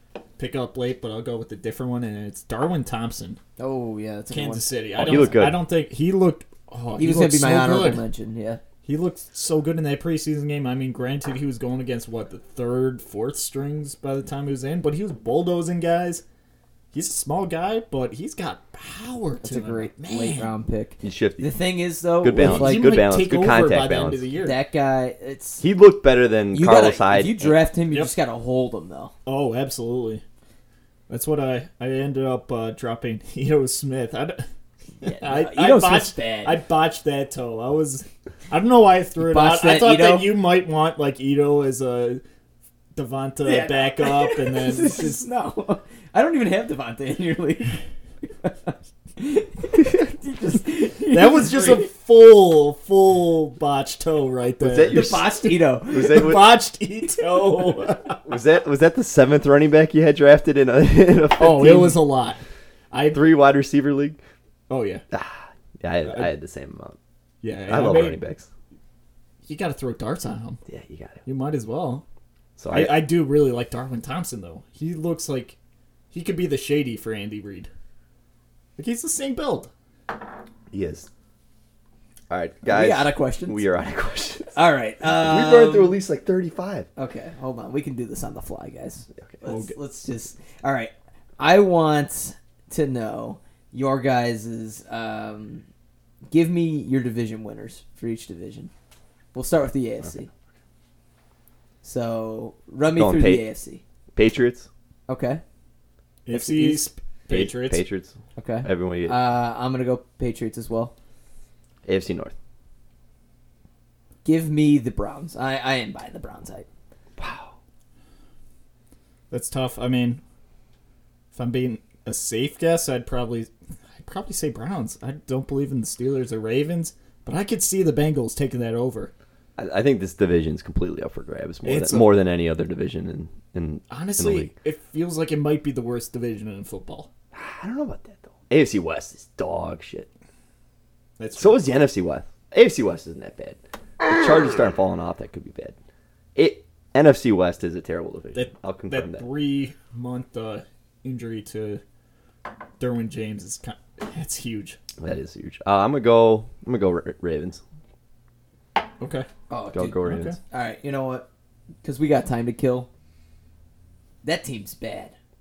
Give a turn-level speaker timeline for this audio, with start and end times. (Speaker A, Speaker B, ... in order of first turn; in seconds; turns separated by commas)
Speaker A: 0.4-3.4, Speaker B: 3.6-4.7, Speaker A: 4.3-8.0, Speaker C: 4.9-5.7, Speaker B: 7.0-8.6, Speaker A: 8.8-16.2, Speaker A: 16.9-20.5, Speaker B: 19.4-22.9, Speaker C: 21.0-21.5, Speaker C: 22.2-24.2, Speaker A: 22.3-24.6, Speaker B: 24.4-25.6, Speaker C: 25.6-27.6, Speaker B: 26.5-29.1, Speaker A: 29.2-30.2, Speaker A: 31.1-34.4, Speaker B: 35.0-36.6, Speaker A: 35.0-42.2, Speaker B: 39.2-40.4, Speaker A: 42.9-45.2, Speaker B: 43.4-47.8, Speaker B: 48.4-51.9, Speaker A: 51.1-55.2, Speaker C: 54.6-56.5, Speaker B: 54.9-56.3, Speaker A: 55.9-58.2, Speaker C: 58.2-62.0, Speaker A: 61.4-63.2, Speaker C: 63.1-64.2, Speaker A: 64.7-65.0, Speaker C: 65.1-67.0, Speaker A: 66.0-66.3, Speaker A: 67.4-68.2, Speaker C: 67.7-68.5, Speaker A: 69.5-70.6, Speaker C: 70.7-71.2, Speaker A: 71.2-72.0, Speaker C: 72.6-73.1, Speaker A: 72.7-75.6, Speaker A: 76.1-77.7, Speaker A: 78.8-79.7, Speaker C: 80.7-81.1, Speaker C: 82.3-86.9, Speaker B: 82.6-83.6, Speaker B: 84.5-86.0, Speaker B: 87.0-95.6, Speaker A: 89.4-89.8, Speaker B: 96.3-98.7, Speaker B: 99.3-100.3, Speaker B: 101.8-103.8, Speaker C: 102.9-103.4, Speaker C: 104.1-104.7, Speaker B: 105.1-105.4, Speaker A: 106.2-107.8, Speaker B: 106.3-106.9, Speaker C: 107.3-109.2, Speaker B: 108.3-110.9, Speaker C: 111.8-112.3, Speaker B: 114.2-116.7, Speaker C: 117.2-117.5, Speaker A: 119.3-120.2, Speaker A: 121.3-129.1, Speaker C: 129.6-134.5, Speaker A: 131.6-132.1, Speaker A: 133.9-137.1, Speaker C: 137.3-140.1, Speaker A: 141.2-141.6, Speaker C: 141.4-145.7, Speaker C: 146.3-149.2, Speaker A: 148.3-151.8, Speaker A: 152.8-154.8, Speaker C: 155.0-157.6, Speaker A: 159.0-159.3, Speaker B: 159.5-161.3, Speaker C: 159.7-160.3, Speaker A: 160.0-160.4, Speaker B: 161.8-162.9, Speaker B: 164.2-165.1